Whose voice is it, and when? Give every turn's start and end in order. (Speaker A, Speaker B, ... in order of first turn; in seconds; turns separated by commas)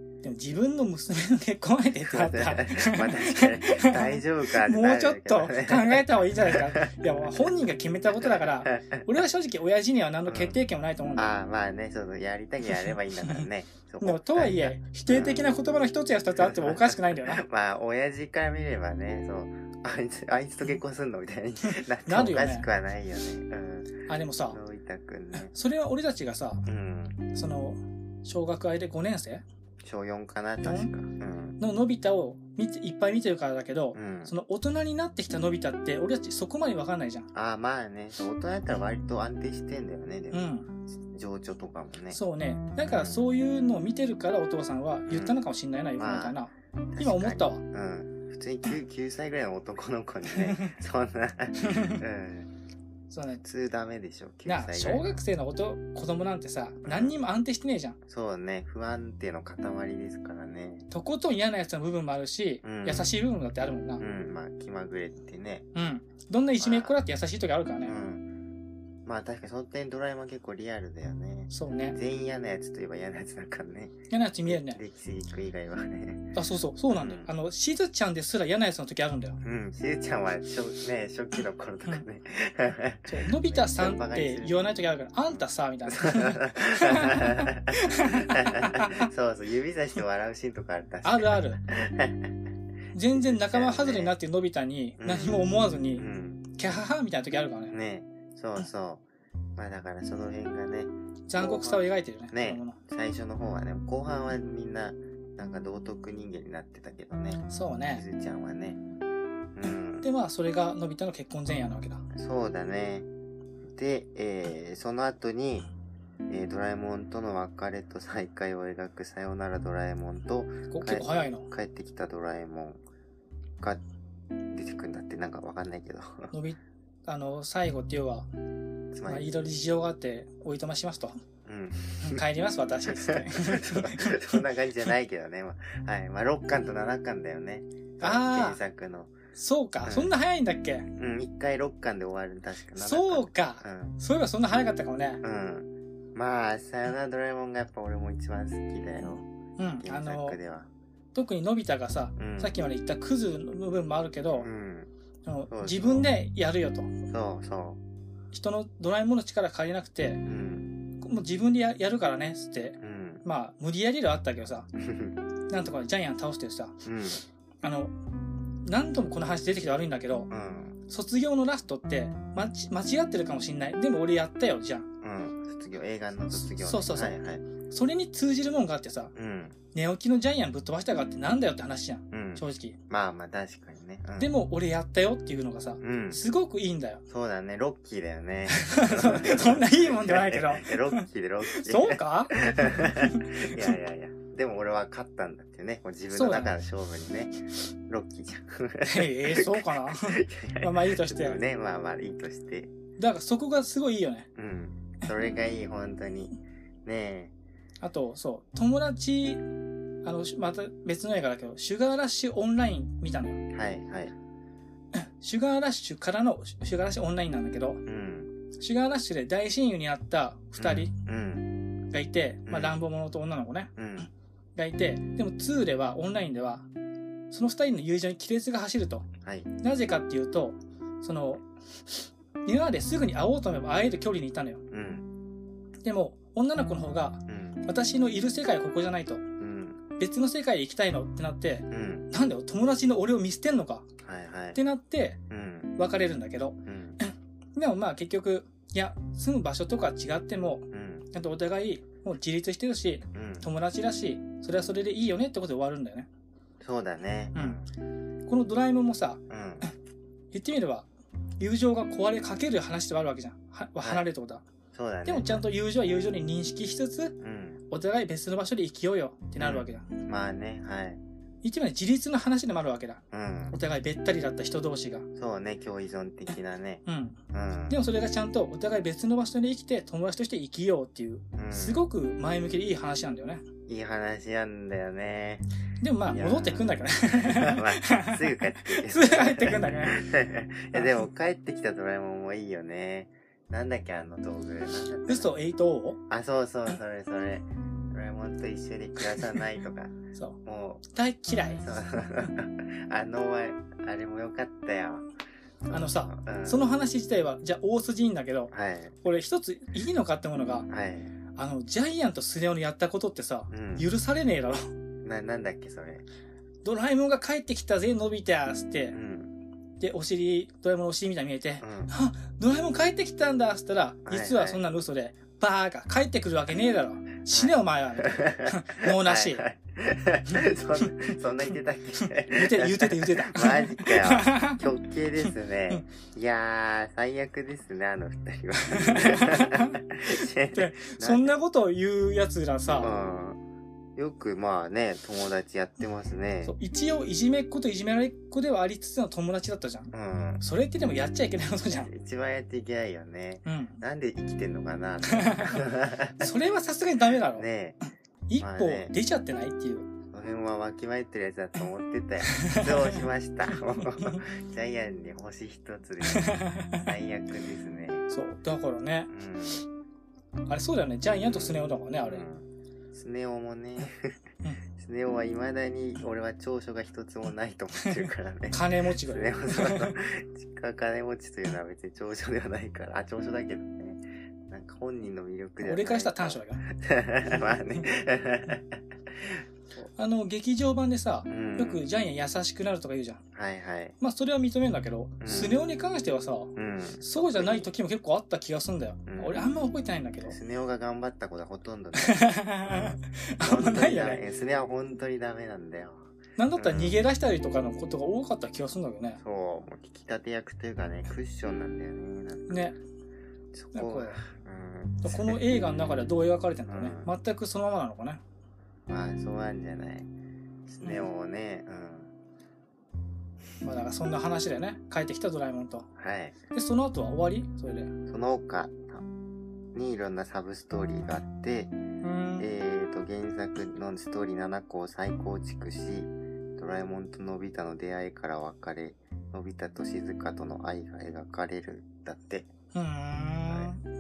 Speaker A: 0.2-11.3, Speaker B: 2.1-7.1, Speaker B: 8.2-8.8, Speaker B: 10.3-10.6, Speaker B: 11.2-15.5, Speaker A: 14.0-17.4, Speaker B: 16.4-25.5, Speaker A: 22.1-22.7, Speaker A: 24.1-24.6, Speaker A: 25.4-26.6, Speaker B: 26.6-27.2, Speaker A: 27.3-29.4, Speaker B: 29.8-31.6, Speaker A: 30.6-30.9, Speaker A: 31.6-37.3, Speaker B: 33.9-34.3, Speaker B: 37.3-42.2, Speaker A: 40.3-40.7, Speaker A: 42.1-47.6, Speaker B: 42.8-43.3, Speaker B: 45.1-45.4, Speaker B: 46.0-46.4, Speaker B: 46.9-52.5, Speaker A: 50.4-50.7, Speaker A: 51.6-52.0, Speaker A: 53.1-53.4, Speaker B: 53.4-55.2, Speaker A: 54.5-58.0, Speaker B: 56.8-57.2, Speaker B: 58.1-60.9, Speaker A: 60.9-64.0, Speaker B: 62.6-63.1, Speaker B: 64.0-65.7, Speaker A: 65.8-68.0, Speaker B: 66.6-67.0, Speaker B: 67.8-68.3, Speaker B: 69.0-76.3, Speaker A: 71.5-72.0, Speaker A: 74.1-74.8, Speaker A: 76.3-79.4, Speaker B: 76.9-77.3, Speaker B: 79.4-84.8, Speaker A: 83.1-89.1, Speaker B: 85.3-92.3, Speaker A: 91.0-91.6, Speaker A: 92.9-97.8, Speaker B: 93.1-94.2, Speaker B: 95.0-96.4, Speaker B: 97.7-99.0, Speaker B: 99.6-108.8, Speaker A: 101.3-102.8, Speaker A: 107.5-108.0, Speaker B: 109.5-110.1, Speaker A: 110.0-112.0, Speaker B: 112.1-113.1, Speaker B: 113.7-115.7, Speaker B: 116.3-122.8, Speaker A: 120.7-121.5, Speaker B: 124.5-126.3, Speaker A: 126.3-128.3, Speaker B: 128.9-129.3, Speaker A: 129.1-131.2, Speaker B: 131.5-132.2, Speaker A: 132.0-134.4, Speaker B: 132.9-139.1, Speaker A: 138.0-138.6, Speaker A: 139.3-140.9, Speaker B: 139.8-140.1, Speaker B: 141.0-144.0, Speaker A: 142.8-145.2, Speaker B: 145.2-149.2, Speaker A: 149.6-150.4, Speaker B: 149.8-150.7, Speaker A: 151.1-154.5, Speaker B: 152.2-152.6, Speaker B: 154.3-154.9, Speaker A: 155.3-156.9, Speaker B: 155.5-156.1, Speaker B: 157.1-157.8, Speaker A: 158.3-160.2, Speaker B: 160.2-160.8, Speaker A: 161.0-164.7, Speaker B: 162.8-163.2, Speaker B: 164.8-165.2, Speaker A: 165.5-166.8, Speaker B: 166.8-167.2, Speaker A: 167.6-167.9, Speaker A: 168.7-170.3, Speaker B: 170.3-170.8, Speaker A: 170.9-174.9, Speaker B: 175.0-177.4, Speaker A: 176.3-177.2, Speaker A: 177.7-179.1, Speaker B: 179.2-179.6, Speaker A: 179.7-182.8, Speaker B: 182.1-184.3, Speaker A: 184.2-187.0, Speaker B: 185.8-186.2, Speaker B: 187.1-202.7, Speaker A: 188.5-193.7, Speaker A: 196.1-196.5, Speaker A: 198.8-201.4, Speaker A: 203.0-204.3, Speaker B: 204.4-207.3, Speaker A: 207.8-209.5, Speaker A: 210.0-213.4, Speaker B: 213.5-214.1, Speaker A: 214.9-217.8, Speaker B: 217.8-218.3, Speaker A: 218.6-220.9, Speaker B: 220.6-221.6, Speaker A: 221.9-223.7, Speaker B: 222.5-222.8, Speaker B: 223.8-224.1, Speaker A: 224.6-226.7, Speaker A: 227.3-229.1, Speaker B: 229.2-229.5, Speaker A: 229.6-234.6, Speaker B: 234.7-235.1, Speaker A: 235.8-239.2, Speaker B: 237.3-237.7, Speaker B: 239.4-239.8, Speaker A: 240.0-243.9, Speaker B: 241.7-242.1, Speaker B: 244.0-244.6, Speaker A: 244.6-245.2, Speaker B: 245.3-245.8, Speaker A: 245.8-256.1, Speaker B: 246.7-247.0, Speaker B: 250.7-251.1, Speaker B: 253.1-253.5, Speaker B: 256.6-257.7, Speaker A: 258.3-259.2, Speaker B: 259.3-259.7, Speaker A: 260.3-260.9, Speaker A: 261.4-264.4, Speaker B: 263.8-264.0, Speaker B: 264.7-265.4, Speaker A: 265.1-267.2, Speaker B: 267.2-267.6, Speaker A: 267.7-269.9, Speaker B: 269.4-271.0, Speaker A: 271.4-275.1, Speaker B: 273.1-273.6, Speaker B: 275.1-277.8, Speaker A: 276.9-283.4, Speaker B: 281.3-281.8, Speaker B: 283.7-285.5, Speaker A: 285.8-290.0, Speaker B: 286.1-295.3, Speaker A: 295.1-296.0, Speaker B: 296.1-300.8, Speaker A: 300.9-301.7, Speaker B: 301.6-305.1, Speaker A: 305.7-308.5, Speaker B: 305.7-306.7, Speaker B: 308.5-308.9, Speaker A: 309.0-310.7, Speaker B: 310.7-311.1, Speaker A: 311.4-314.7, Speaker B: 313.5-313.9, Speaker B: 315.0-316.0, Speaker A: 316.6-319.0, Speaker B: 318.9-319.3, Speaker A: 319.8-329.4, Speaker B: 321.6-321.9, Speaker B: 324.1-324.6, Speaker B: 327.3-341.3, Speaker A: 332.3-334.6, Speaker A: 338.6-339.8, Speaker A: 340.5-342.9, Speaker B: 342.8-343.4, Speaker B: 344.0-346.6, Speaker A: 346.4-351.9, Speaker B: 349.9-350.4, Speaker B: 351.7-356.3, Speaker A: 353.4-353.8, Speaker A: 355.1-355.6, Speaker A: 356.2-357.5, Speaker B: 357.4-357.8, Speaker A: 358.3-359.9, Speaker B: 358.4-358.9, Speaker B: 360.1-368.1, Speaker A: 362.3-363.0, Speaker A: 363.8-364.2, Speaker A: 366.0-366.9, Speaker A: 368.1-369.6, Speaker B: 369.1-369.6, Speaker A: 370.5-372.2, Speaker B: 371.2-374.2, Speaker B: 374.8-389.4, Speaker A: 377.8-379.9, Speaker A: 385.6-386.6, Speaker A: 389.8-393.2, Speaker B: 391.3-391.8, Speaker B: 393.4-394.0, Speaker A: 394.0-400.4, Speaker B: 395.2-395.6, Speaker B: 396.6-397.7, Speaker B: 399.1-399.4, Speaker B: 400.3-407.0, Speaker A: 401.9-404.2, Speaker A: 406.4-409.2, Speaker B: 409.2-412.6, Speaker A: 412.5-412.8, Speaker B: 413.5-415.4, Speaker A: 413.7-414.2, Speaker A: 415.0-418.2, Speaker B: 416.7-417.1, Speaker B: 418.9-420.1, Speaker B: 420.7-422.1, Speaker A: 423.6-425.9, Speaker B: 426.0-426.4, Speaker A: 426.5-427.9, Speaker B: 428.1-429.1, Speaker B: 429.7-431.7, Speaker A: 432.0-432.5, Speaker B: 432.4-442.5, Speaker A: 442.7-443.8, Speaker B: 443.5-443.7